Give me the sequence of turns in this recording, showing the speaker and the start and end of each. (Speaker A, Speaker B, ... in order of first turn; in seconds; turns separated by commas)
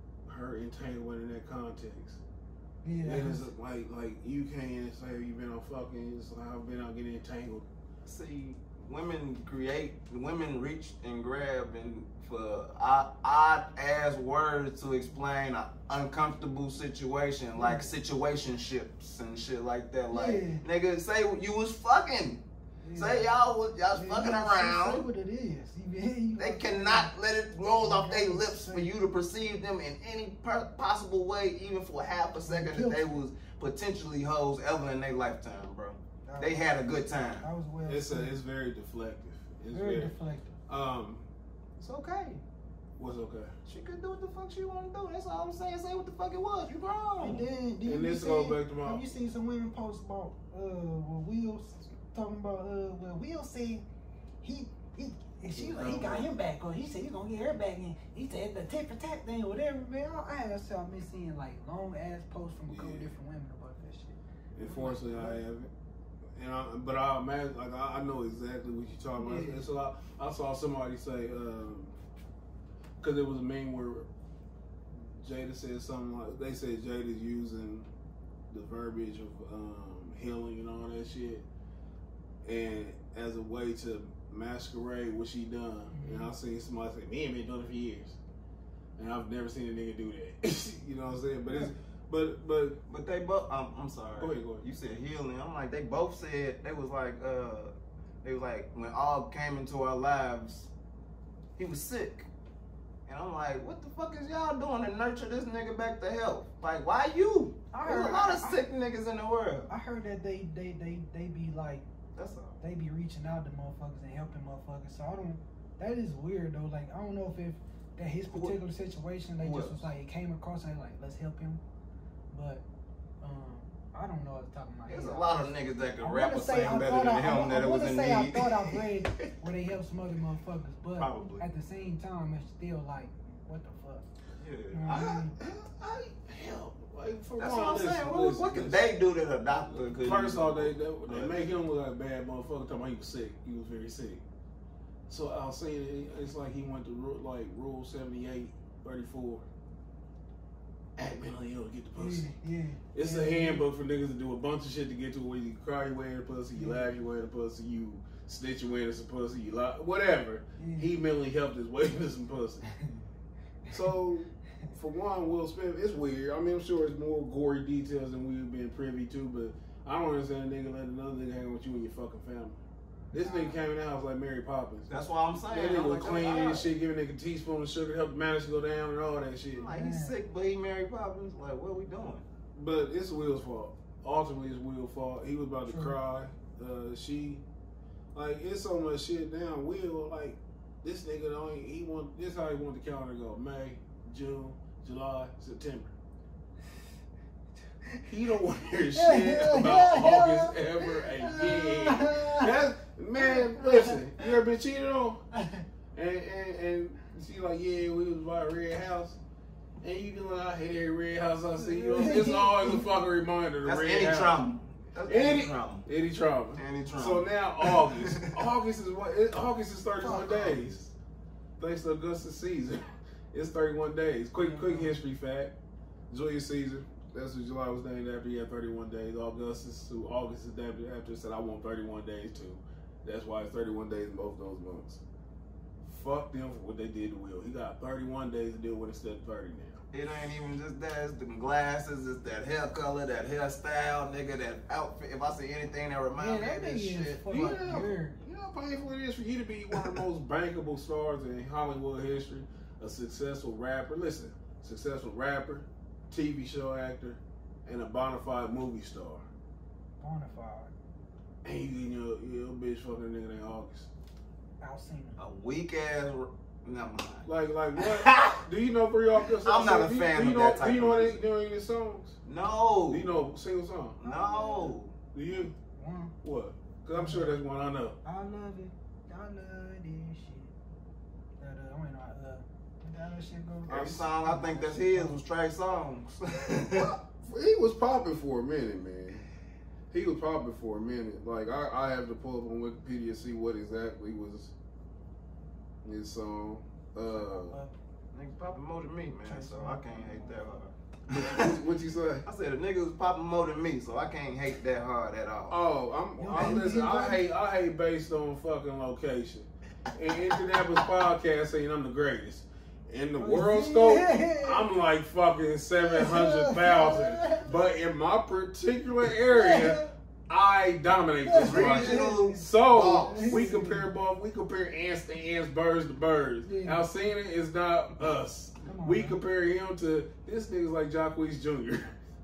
Speaker A: 0.3-2.2, Speaker B: 2.8-3.5, Speaker A: 3.0-7.7, Speaker C: 8.1-22.4, Speaker B: 17.6-17.9, Speaker B: 20.1-20.6, Speaker B: 22.8-23.3, Speaker C: 22.9-25.0, Speaker B: 23.9-27.1, Speaker C: 26.4-37.5, Speaker B: 27.8-28.9, Speaker B: 32.5-33.2, Speaker B: 36.3-36.7, Speaker B: 37.4-38.4, Speaker A: 37.9-40.1, Speaker B: 39.7-40.5, Speaker A: 40.7-41.3, Speaker C: 41.8-42.4, Speaker A: 43.0-43.5, Speaker C: 43.7-47.5, Speaker B: 47.2-53.9, Speaker A: 47.9-49.1, Speaker B: 54.4-65.4, Speaker A: 55.5-56.3, Speaker A: 62.7-63.1, Speaker A: 64.5-65.7, Speaker A: 66.4-72.0, Speaker B: 69.2-69.6, Speaker A: 73.0-74.1, Speaker A: 75.0-77.9, Speaker A: 78.5-81.5, Speaker A: 82.4-88.2, Speaker B: 85.9-86.3, Speaker A: 89.0-92.8, Speaker C: 92.9-100.7, Speaker A: 94.2-94.6, Speaker C: 101.6-102.3, Speaker C: 103.1-109.7, Speaker B: 107.7-108.6, Speaker B: 109.7-111.8, Speaker C: 112.2-112.6, Speaker B: 112.6-121.6, Speaker C: 119.4-119.9, Speaker B: 122.3-122.6, Speaker B: 123.2-125.5, Speaker C: 124.9-129.3, Speaker B: 126.0-134.1, Speaker C: 131.0-131.4, Speaker C: 134.4-135.3, Speaker B: 134.7-135.3, Speaker A: 134.9-138.8, Speaker C: 137.4-141.3, Speaker A: 140.0-144.2, Speaker A: 145.1-149.5, Speaker A: 151.0-152.3, Speaker B: 152.0-153.7, Speaker A: 152.9-162.7, Speaker B: 156.5-156.9, Speaker B: 160.6-160.9, Speaker A: 163.7-172.6, Speaker B: 173.1-173.6, Speaker A: 173.1-174.9, Speaker C: 174.9-176.7, Speaker A: 175.5-179.7, Speaker C: 179.6-182.2, Speaker B: 179.7-180.2, Speaker A: 182.5-187.4, Speaker B: 185.7-186.0, Speaker A: 188.1-195.9, Speaker A: 198.1-205.2, Speaker B: 198.9-202.5, Speaker B: 203.2-204.3, Speaker B: 205.3-205.6, Speaker A: 205.9-209.2, Speaker A: 209.8-214.4, Speaker B: 211.6-212.9, Speaker C: 213.6-215.8, Speaker A: 215.1-220.9, Speaker C: 216.6-218.4, Speaker B: 220.0-220.6, Speaker A: 221.6-225.5, Speaker B: 224.4-225.0, Speaker A: 226.1-235.0, Speaker A: 235.8-239.8, Speaker C: 239.9-247.9, Speaker B: 246.2-248.2, Speaker A: 247.3-259.3, Speaker B: 260.0-260.7, Speaker A: 261.4-263.9, Speaker B: 264.6-265.2, Speaker C: 265.2-268.4, Speaker A: 267.3-272.2, Speaker C: 269.3-271.2, Speaker C: 272.3-273.1, Speaker A: 272.9-274.0, Speaker C: 274.0-274.9, Speaker B: 274.0-274.8, Speaker A: 275.1-275.5, Speaker B: 275.7-276.1, Speaker A: 276.2-278.0, Speaker B: 276.9-277.4, Speaker B: 278.0-280.5, Speaker B: 281.4-285.2, Speaker A: 283.7-284.1, Speaker C: 283.7-286.9, Speaker A: 286.7-289.2, Speaker A: 289.9-294.5, Speaker A: 295.8-297.6, Speaker B: 297.1-297.7, Speaker C: 298.1-301.6, Speaker B: 299.2-300.5, Speaker A: 301.1-302.2, Speaker C: 302.3-305.6, Speaker A: 305.5-331.9, Speaker B: 306.2-307.3, Speaker B: 313.2-314.6, Speaker B: 315.8-317.5, Speaker B: 319.3-319.9, Speaker B: 321.3-323.9, Speaker C: 321.4-323.5, Speaker B: 326.4-326.8, Speaker B: 328.6-329.2